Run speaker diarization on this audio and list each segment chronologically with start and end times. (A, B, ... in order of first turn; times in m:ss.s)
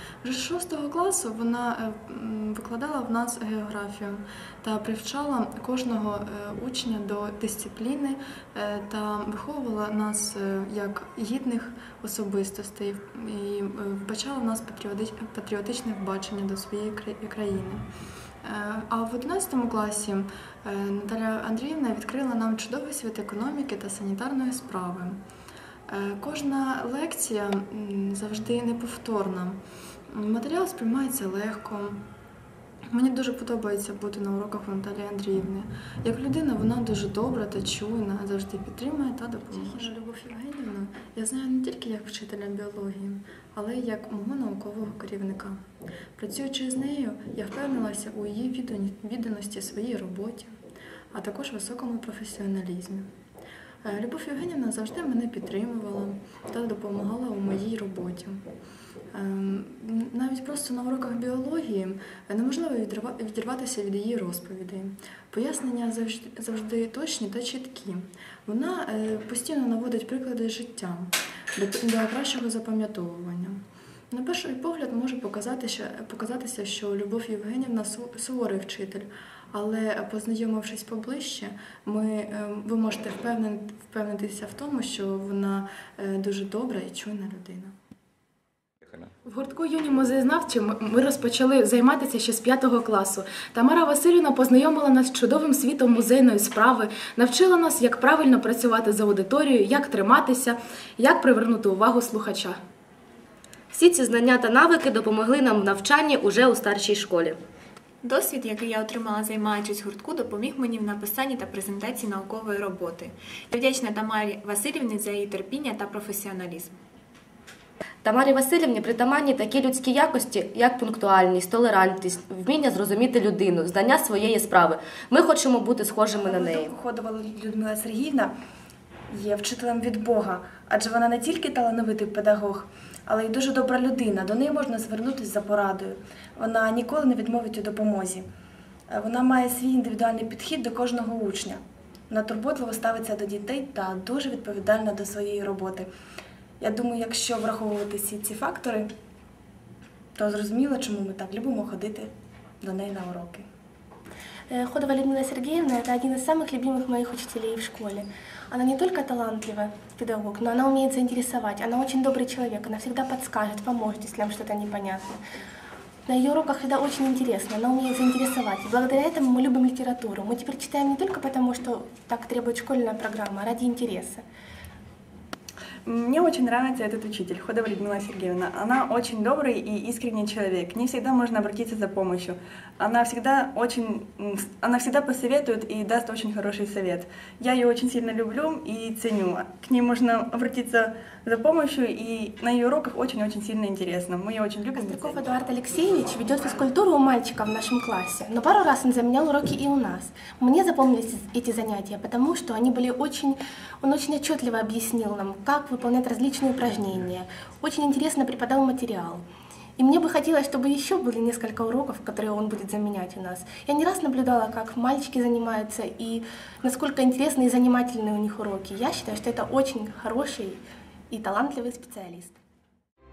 0:00.2-0:17.8 A
0:18.4-0:25.2 A
0:25.9-0:32.0 A
0:32.9-0:45.6 A
0:46.2-0:50.6 A
0:51.1-0:53.1 A
0:53.8-0:58.4 A
0:59.1-1:27.7 A
1:29.3-1:42.6 B
1:43.7-1:47.4 C
1:48.0-1:56.7 D
1:58.0-2:06.7 C
2:06.1-2:08.3 E
2:09.1-2:18.2 E
2:18.9-2:25.9 E
2:26.6-2:28.9 E
2:30.2-2:32.1 E
2:32.6-2:33.4 E
2:34.5-2:45.2 F
2:46.1-2:54.2 F
2:55.9-3:15.0 G
3:14.7-3:29.2 F
3:29.8-3:42.4 F